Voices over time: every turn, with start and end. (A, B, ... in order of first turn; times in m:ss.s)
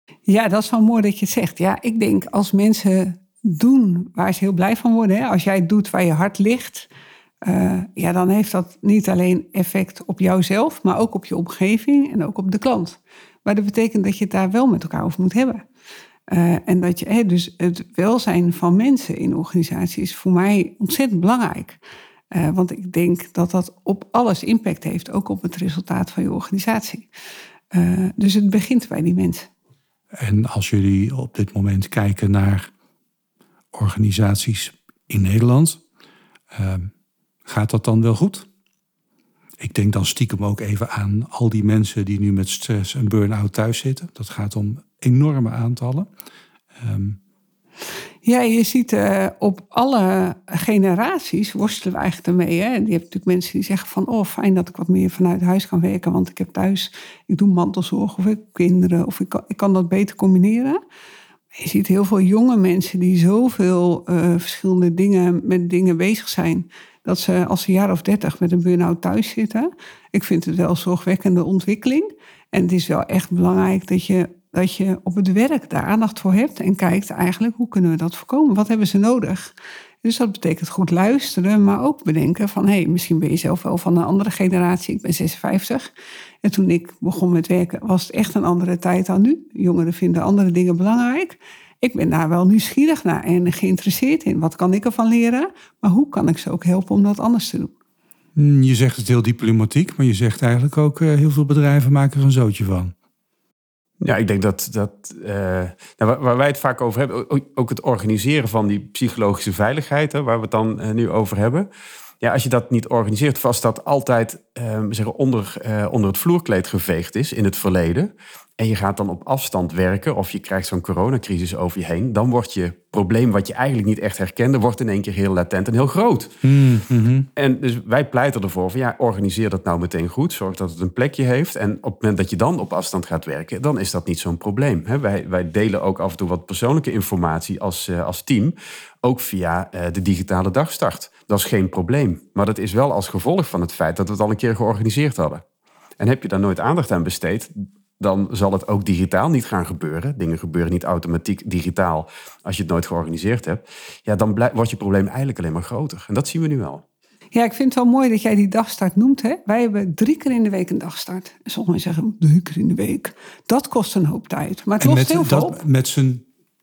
0:00.3-0:06.9 A
0:07.4-0:15.6 A
0:16.3-0:21.8 A
0:22.3-0:27.1 A
0:27.7-0:29.5 A
0:30.2-0:32.7 B
0:33.7-0:35.8 B
0:36.5-0:36.9 B
0:37.5-0:38.5 B
0:39.6-0:46.1 B
0:46.8-0:47.2 B
0:48.2-1:00.8 A
1:01.6-1:25.9 A
1:26.4-1:37.7 A
1:38.4-1:42.9 B
1:44.0-1:51.7 C
1:52.2-2:06.3 C
2:06.4-2:07.3 B
2:07.4-2:25.4 C
2:26.0-2:36.8 C
2:37.3-2:45.6 A
2:44.8-2:46.2 B